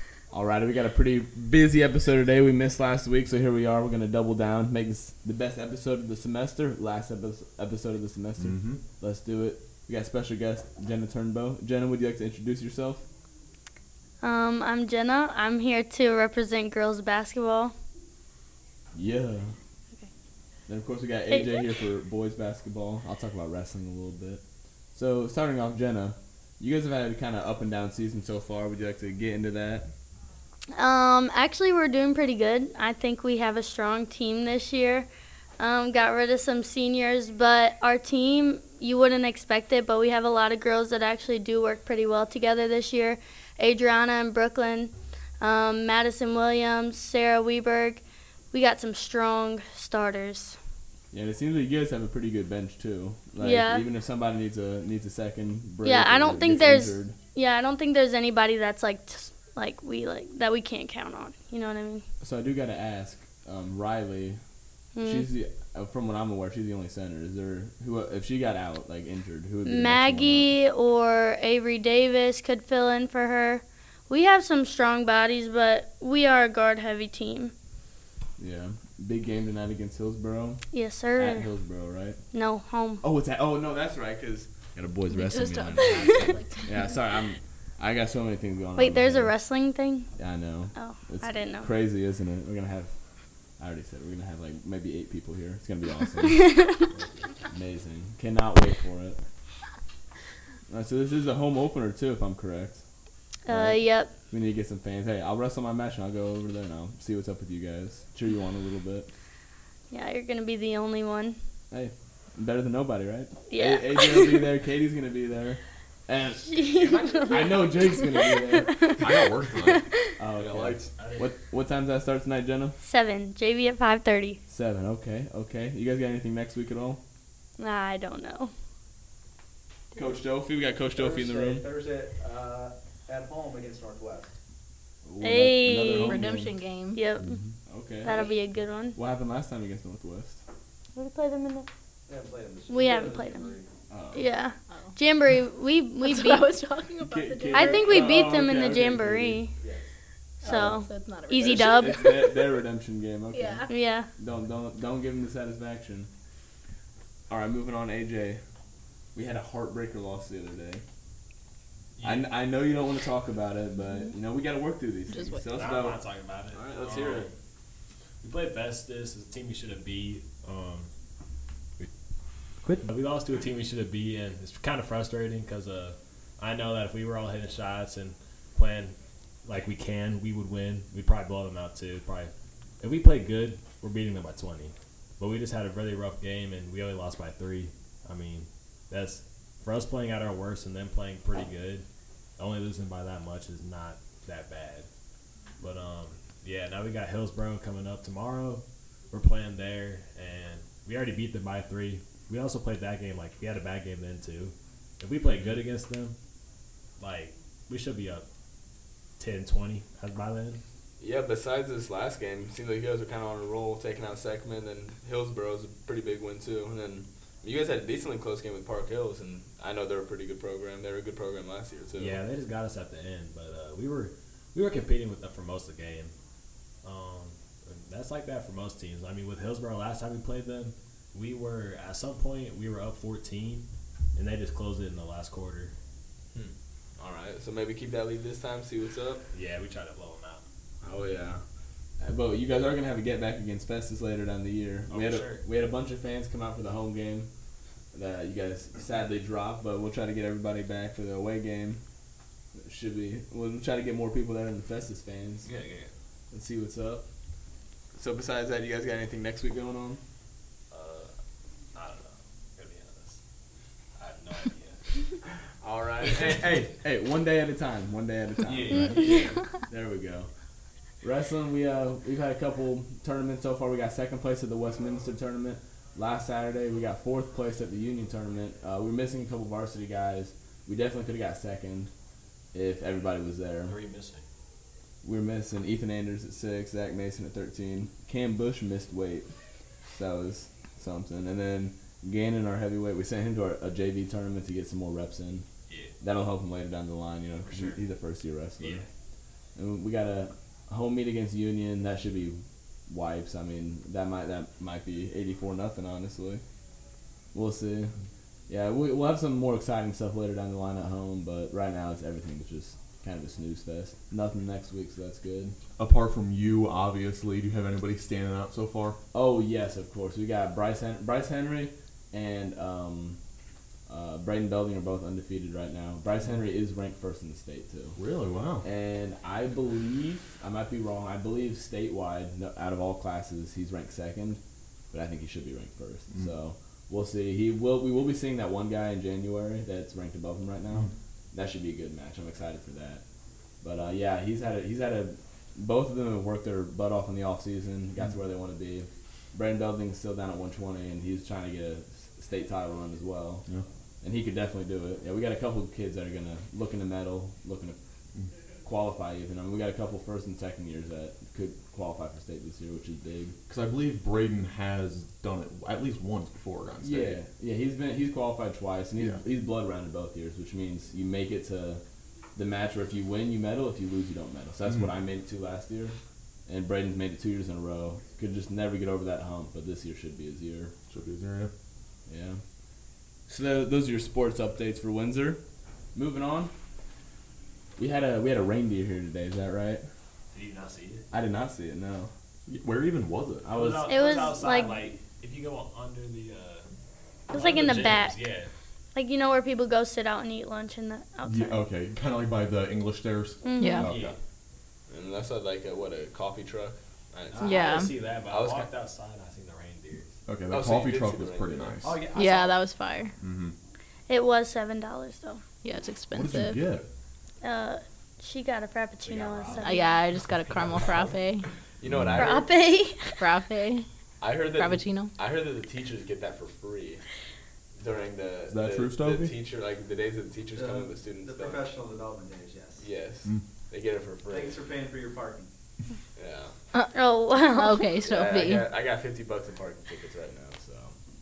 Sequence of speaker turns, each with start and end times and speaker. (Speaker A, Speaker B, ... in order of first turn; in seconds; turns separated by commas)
Speaker A: 0.3-13.0, Speaker B: 8.4-8.8, Speaker C: 14.2-17.7, Speaker A: 18.9-19.6, Speaker A: 20.7-24.4, Speaker C: 21.3-21.8, Speaker A: 24.9-29.9, Speaker C: 30.8-48.0, Speaker C: 48.5-50.6, Speaker A: 51.1-57.2, Speaker C: 53.4-53.9, Speaker C: 55.8-62.0, Speaker A: 62.2-64.4, Speaker C: 65.0-65.3, Speaker A: 65.0-70.5, Speaker C: 69.7-77.5, Speaker A: 78.4-80.6, Speaker C: 80.7-81.5, Speaker A: 81.2-82.2, Speaker C: 82.3-83.0, Speaker A: 83.0-89.4, Speaker D: 85.1-86.9, Speaker C: 88.8-90.1, Speaker A: 90.2-92.9, Speaker C: 90.8-91.7, Speaker A: 93.6-99.2, Speaker C: 96.3-96.9, Speaker A: 100.7-102.8, Speaker C: 103.5-104.2, Speaker A: 103.5-109.1, Speaker C: 109.9-111.4, Speaker A: 111.7-116.5, Speaker C: 113.5-114.5, Speaker C: 116.5-119.8, Speaker A: 117.3-118.8, Speaker E: 117.3-117.7, Speaker B: 119.0-119.8, Speaker A: 120.2-122.8, Speaker E: 120.4-121.3, Speaker C: 122.8-124.4, Speaker A: 124.5-127.0, Speaker C: 127.6-128.5, Speaker A: 130.0-131.7, Speaker F: 130.9-134.3, Speaker A: 135.1-136.5, Speaker C: 135.2-136.2, Speaker D: 135.9-137.0, Speaker C: 136.9-137.4, Speaker B: 137.2-137.5, Speaker A: 137.7-138.4, Speaker C: 138.0-139.0, Speaker A: 138.9-140.4, Speaker C: 141.0-141.7, Speaker F: 142.1-143.7, Speaker C: 142.7-143.5, Speaker A: 143.9-144.3, Speaker C: 144.1-146.5, Speaker D: 146.0-148.1, Speaker A: 147.0-149.4, Speaker C: 147.5-149.5, Speaker F: 149.6-149.9, Speaker D: 150.4-152.0, Speaker C: 150.4-152.4, Speaker A: 150.5-150.8, Speaker A: 151.4-156.1, Speaker D: 153.3-153.7, Speaker C: 153.7-154.1, Speaker A: 157.3-158.4, Speaker A: 159.2-160.8, Speaker E: 162.0-162.3, Speaker A: 162.0-166.0, Speaker D: 165.1-165.4, Speaker E: 165.4-167.3, Speaker A: 166.5-167.3, Speaker E: 168.2-170.9, Speaker E: 172.6-191.9, Speaker E: 192.4-194.9, Speaker E: 195.6-206.2, Speaker E: 207.0-208.2, Speaker E: 209.2-210.6, Speaker A: 211.0-222.2, Speaker E: 222.0-226.1, Speaker E: 226.8-235.7, Speaker A: 236.3-239.2, Speaker E: 239.3-240.4, Speaker A: 240.8-241.4, Speaker A: 242.0-247.3, Speaker E: 244.9-245.4, Speaker A: 247.9-251.8, Speaker A: 252.6-255.5, Speaker E: 255.4-255.9, Speaker A: 256.3-257.1, Speaker A: 257.9-260.0, Speaker E: 260.7-261.1, Speaker E: 261.8-263.2, Speaker E: 264.0-265.2, Speaker A: 265.6-270.3, Speaker E: 266.0-266.7, Speaker E: 268.4-269.4, Speaker A: 271.0-281.9, Speaker A: 282.5-283.8, Speaker E: 283.6-284.2, Speaker A: 285.0-289.3, Speaker A: 289.9-295.4, Speaker E: 295.7-295.9, Speaker A: 296.0-298.9, Speaker E: 297.5-297.8, Speaker E: 298.6-298.9, Speaker A: 299.6-302.4, Speaker A: 302.9-306.4, Speaker A: 307.3-307.9, Speaker A: 308.5-315.6, Speaker B: 315.8-319.0, Speaker A: 319.1-323.2, Speaker A: 323.9-328.0, Speaker B: 328.0-328.6, Speaker A: 328.6-334.4, Speaker A: 334.9-343.0, Speaker A: 343.6-353.5, Speaker A: 354.0-357.8, Speaker A: 358.6-363.4, Speaker B: 363.5-367.2, Speaker A: 366.8-371.8, Speaker B: 369.0-369.2, Speaker A: 372.4-380.7, Speaker B: 374.6-374.9, Speaker B: 380.9-381.5, Speaker A: 382.1-382.4, Speaker A: 383.3-385.4, Speaker A: 385.9-386.5, Speaker A: 387.8-389.9, Speaker E: 390.3-391.0, Speaker A: 391.1-392.1, Speaker B: 392.5-393.5, Speaker A: 393.4-394.0, Speaker E: 393.5-396.7, Speaker C: 393.9-394.8, Speaker E: 397.3-398.5, Speaker C: 397.3-398.1, Speaker C: 398.9-401.6, Speaker B: 401.3-404.1, Speaker C: 403.4-403.9, Speaker D: 403.6-403.9, Speaker E: 403.8-404.2, Speaker A: 403.9-404.1, Speaker A: 404.9-407.6, Speaker E: 407.3-410.1, Speaker D: 407.4-407.9, Speaker A: 408.3-408.7, Speaker B: 410.3-412.0, Speaker A: 410.5-411.8, Speaker E: 411.8-412.6, Speaker D: 412.1-413.1, Speaker B: 413.2-413.6, Speaker C: 414.1-415.4, Speaker D: 415.6-416.6, Speaker B: 416.1-416.9, Speaker C: 417.4-420.0, Speaker E: 419.0-419.9, Speaker D: 419.6-421.5, Speaker E: 420.5-421.1, Speaker A: 421.8-422.7, Speaker B: 421.9-422.4, Speaker C: 422.1-423.0, Speaker D: 423.1-423.9, Speaker A: 424.2-427.0, Speaker D: 424.5-425.1, Speaker A: 427.8-431.7, Speaker B: 428.5-429.3, Speaker F: 430.5-432.9, Speaker A: 432.8-434.7, Speaker F: 434.3-435.5, Speaker A: 436.2-436.5, Speaker D: 436.7-438.7, Speaker C: 436.9-437.9, Speaker A: 438.0-440.9